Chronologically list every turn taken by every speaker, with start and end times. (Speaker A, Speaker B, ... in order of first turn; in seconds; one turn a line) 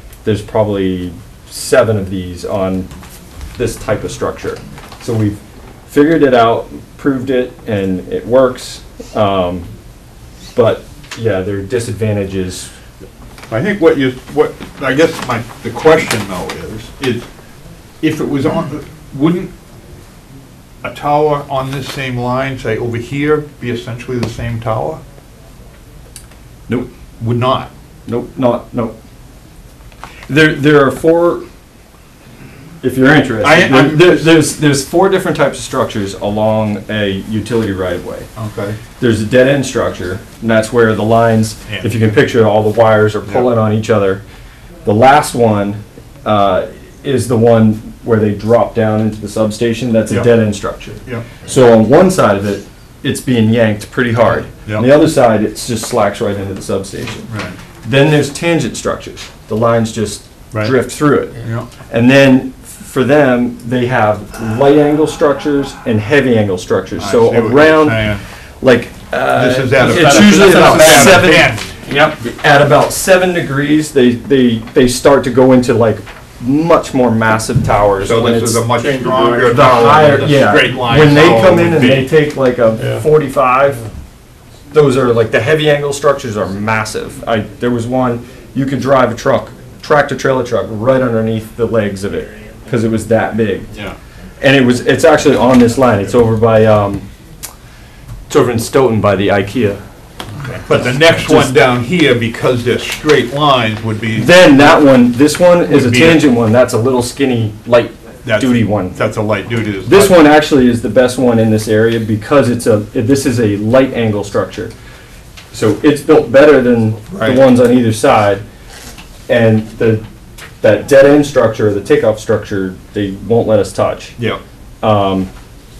Speaker A: 0.2-2.9
Speaker A: 3.5-9.7
Speaker A: 10.5-12.7
Speaker B: 13.5-17.3
Speaker B: 18.0-19.5
Speaker B: 20.8-25.0
Speaker B: 27.2-27.7
Speaker A: 28.1-28.9
Speaker A: 30.3-31.4
Speaker A: 32.8-38.3
Speaker B: 33.4-34.4
Speaker B: 38.4-38.8
Speaker A: 39.0-44.2
Speaker B: 41.7-41.9
Speaker A: 44.8-57.3
Speaker B: 57.3-57.6
Speaker A: 57.8-68.1
Speaker B: 61.4-61.7
Speaker B: 67.0-68.2
Speaker A: 68.6-78.8
Speaker B: 69.3-71.7
Speaker B: 78.0-82.1
Speaker A: 79.4-83.8
Speaker A: 84.7-93.7
Speaker A: 94.4-97.0
Speaker A: 98.3-99.8
Speaker B: 100.6-104.8
Speaker A: 100.7-101.6
Speaker A: 104.2-109.0
Speaker B: 105.7-106.3
Speaker B: 108.2-110.2
Speaker A: 109.8-114.7
Speaker A: 115.5-118.4
Speaker B: 117.1-117.4
Speaker A: 119.3-120.0
Speaker A: 120.6-124.2
Speaker A: 124.8-125.3